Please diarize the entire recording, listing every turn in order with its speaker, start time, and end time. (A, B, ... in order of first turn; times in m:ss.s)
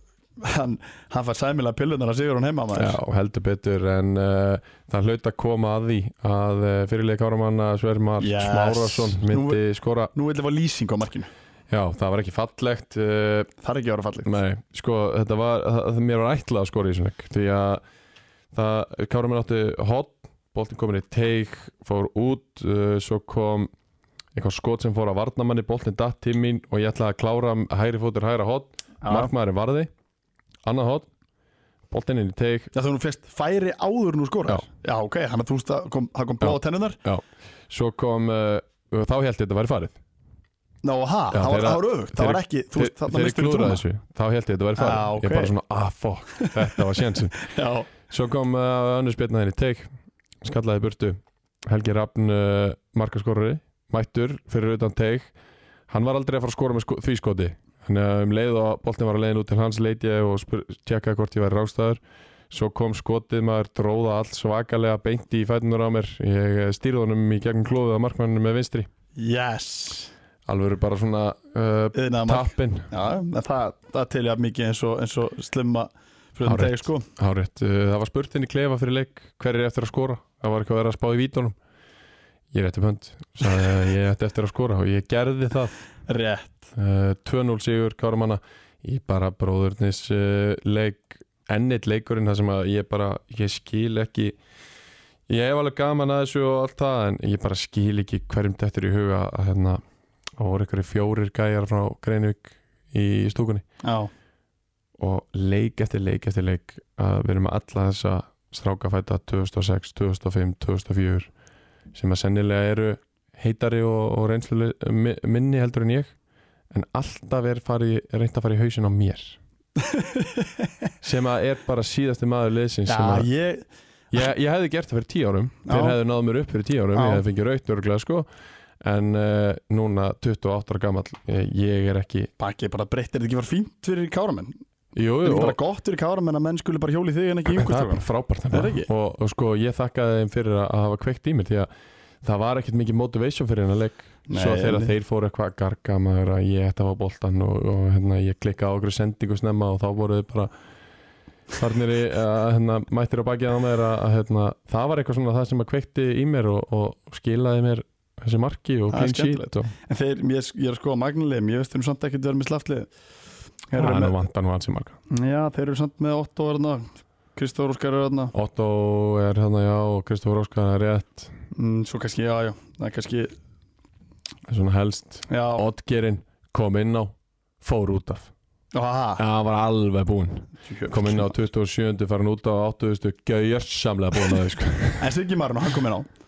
0:00.4-0:03.0 A
0:02.7-0:10.1 B
0:08.2-0:09.6 A
0:10.1-0:11.3 A
0:11.7-0:13.5 B
0:13.6-0:14.3 A
0:14.2-0:17.8 B
0:18.5-0:23.7 B
0:24.3-0:29.9 B
0:29.0-0:29.3 A
0:30.6-0:31.1 B
0:31.9-0:32.7 B
0:32.7-0:37.0 A
0:36.4-0:40.0 B
0:40.8-0:43.8 A
0:41.3-0:47.4 B
0:44.8-0:45.5 A
0:46.4-0:46.8 A
0:47.3-0:47.9 A
0:48.0-0:49.9 B
0:50.4-0:55.3 B
0:55.9-1:08.9 B
1:09.2-1:10.1 A
1:10.4-1:12.9 B
1:11.9-1:17.1 A
1:16.4-1:21.6 B
1:22.5-1:25.7 B
1:26.1-1:26.7 A
1:26.7-1:34.4 B
1:35.3-1:39.8 B
1:40.4-1:43.6 B
1:43.8-1:44.1 A
1:45.0-1:51.3 B
1:51.9-1:56.1 B
1:56.7-1:59.4 B
1:59.8-2:00.7 A
2:01.0-2:03.3 B
2:02.9-2:03.6 A
2:04.1-2:08.3 B
2:05.6-2:06.0 A
2:06.9-2:07.2 A
2:08.8-2:12.3 B
2:12.4-2:14.6 A
2:14.9-2:15.6 B
2:15.2-2:18.9 A
2:17.5-2:21.7 B
2:22.2-2:30.5 B
2:24.3-2:24.9 A
2:31.6-2:39.7 B
2:38.9-2:42.9 A
2:43.7-2:44.2 A
2:43.8-2:45.0 B
2:45.1-2:48.3 A
2:48.3-2:51.3 B
2:51.5-2:53.3 A
2:54.5-2:58.3 B
2:55.3-2:55.6 A
2:58.7-2:59.2 A
2:59.2-3:05.1 B
3:00.6-3:01.3 A
3:05.0-3:06.1 A